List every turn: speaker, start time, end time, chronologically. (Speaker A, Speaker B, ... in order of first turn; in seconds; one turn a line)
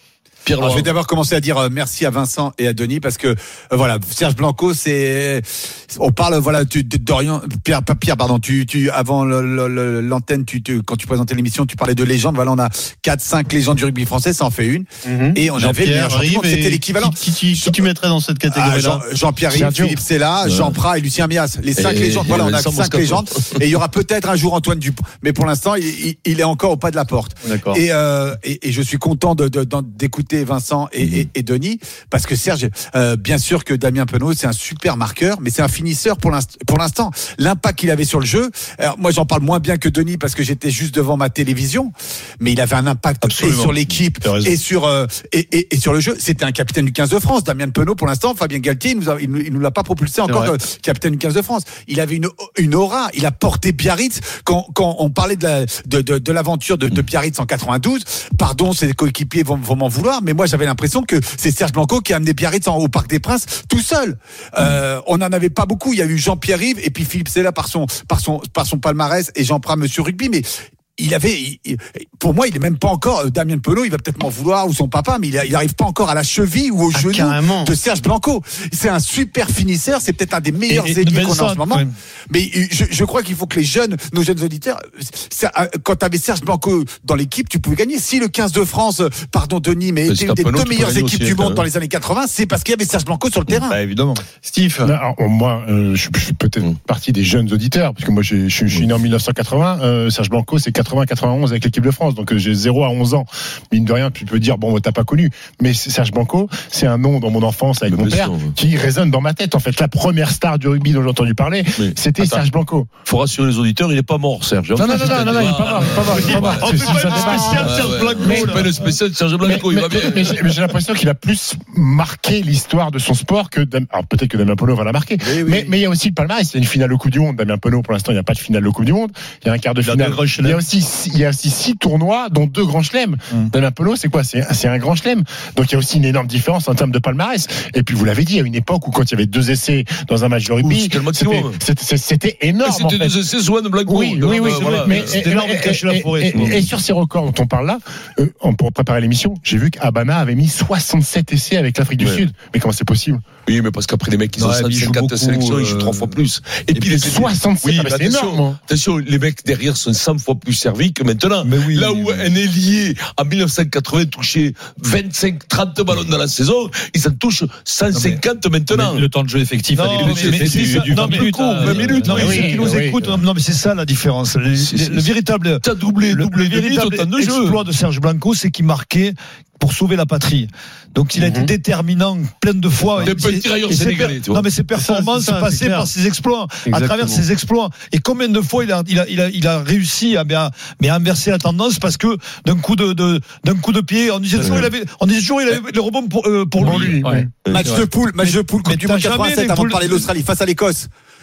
Speaker A: 0.5-0.9
Speaker B: 0.6-17.8
Speaker C: 15.0-19.0
Speaker B: 18.5-70.5
Speaker D: 19.5-20.0
Speaker A: 20.4-20.8
Speaker A: 21.8-23.6
Speaker C: 27.4-27.8
Speaker A: 31.0-31.3
Speaker E: 43.2-44.6
Speaker C: 50.3-50.5
Speaker B: 71.0-93.8
Speaker C: 76.9-77.7
Speaker E: 80.7-81.9
Speaker A: 90.1-91.7
Speaker E: 93.7-94.2
Speaker C: 94.4-95.0
Speaker D: 94.8-112.9
Speaker A: 107.9-108.5
Speaker A: 111.8-112.4
Speaker A: 113.1-120.4
Speaker D: 114.8-118.7
Speaker E: 115.9-118.7
Speaker D: 119.4-143.2
Speaker E: 129.8-130.6
Speaker A: 140.6-141.6
Speaker A: 142.6-145.2
Speaker D: 143.9-153.2
Speaker E: 144.3-146.6
Speaker A: 153.5-169.1
Speaker E: 154.3-156.2
Speaker D: 157.0-158.6
Speaker E: 161.4-162.3
Speaker E: 167.9-168.2
Speaker F: 168.7-172.3
Speaker E: 169.7-197.1
Speaker A: 169.9-172.7
Speaker D: 172.1-173.0
Speaker A: 174.6-177.6
Speaker C: 181.2-181.5
Speaker A: 183.0-184.4
Speaker C: 184.8-185.9
Speaker C: 186.7-187.2
Speaker A: 194.4-194.7
Speaker D: 196.6-197.3
Speaker A: 197.4-197.8
Speaker B: 197.5-200.9
Speaker E: 197.6-200.1